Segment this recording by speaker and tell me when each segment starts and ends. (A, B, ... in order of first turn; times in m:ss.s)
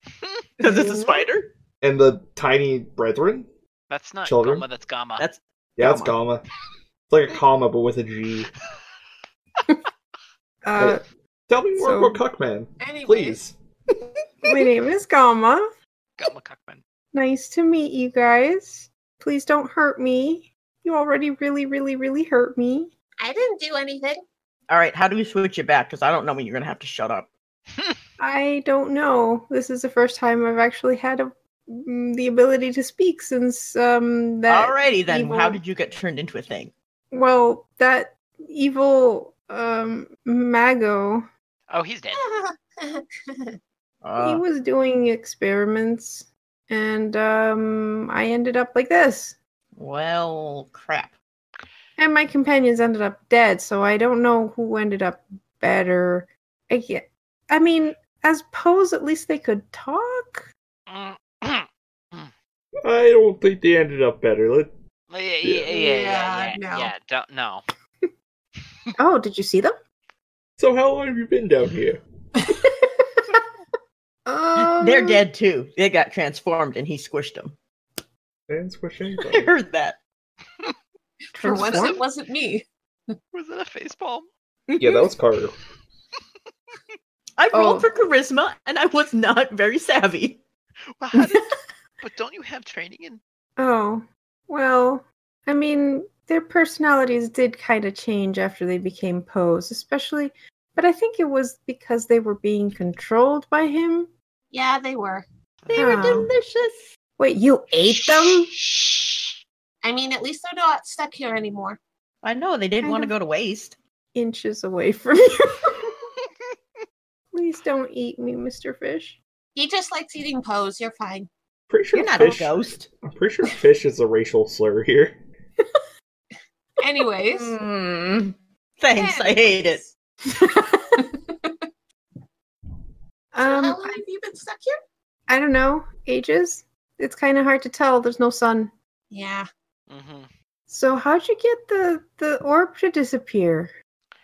0:00.2-0:00.4 A
0:00.6-0:01.5 B
0:00.6-0:01.2 C
0:01.8-0:03.5 D
0:03.9-0:05.3 A
0:04.2-0:04.7 D
0:05.2-0:06.2 B
0:05.8-0:06.5 D
0:07.1-0:08.5 D
0:10.6-0:11.0 C
0:10.8-0:13.6 D
0:11.8-0:12.2 C
0:12.8-0:13.4 E
0:14.4-0:15.7 C
0:16.2-0:16.8 A
0:17.1-0:22.9 C
0:23.2-0:24.2 E
0:24.7-0:27.3 B
0:28.2-0:35.6 C
0:34.5-0:36.7 B
0:37.1-0:41.3 C
0:41.7-0:42.2 A
0:42.1-0:43.6 E
0:44.0-0:44.4 B
0:44.2-0:49.4 C
0:49.8-0:51.2 B
0:52.0-1:00.5 C
1:00.9-1:02.3 A
1:02.8-1:04.7 D
1:05.1-1:07.7 A
1:05.4-1:05.7 D
1:05.7-1:06.9 E
1:09.0-1:09.7 C
1:10.6-1:12.0 D
1:12.6-1:13.3 C
1:14.3-1:15.2 C
1:14.6-1:17.6 B
1:18.5-1:19.5 D
1:19.2-1:20.0 B
1:21.3-1:22.0 C
1:21.4-1:23.2 E
1:21.6-1:22.0 A
1:23.3-1:24.3 A
1:24.7-1:25.1 C
1:24.8-1:25.6 D
1:27.4-1:30.4 B
1:27.5-1:27.9 C
1:31.0-1:33.2 A
1:31.1-1:31.5 C
1:33.6-1:44.1 C
1:44.5-1:45.3 E
1:45.6-1:46.1 A
1:45.7-1:46.9 B
1:45.8-1:46.3 C
1:47.2-1:48.5 C
1:48.3-1:49.3 A
1:49.8-1:51.8 E
1:52.2-1:53.8 B
1:52.8-1:53.1 C
1:54.1-1:55.8 C
1:57.3-1:59.2 C
1:59.6-2:01.3 E
2:01.7-2:05.2 D
2:01.9-2:02.9 B
2:06.8-2:07.6 E
2:07.3-2:09.9 B
2:08.9-2:09.9 E
2:10.3-2:11.1 C
2:13.3-2:14.0 C
2:13.4-2:14.8 E
2:15.3-2:18.7 C
2:19.1-2:19.5 E
2:19.9-2:20.3 A
2:20.7-2:23.7 C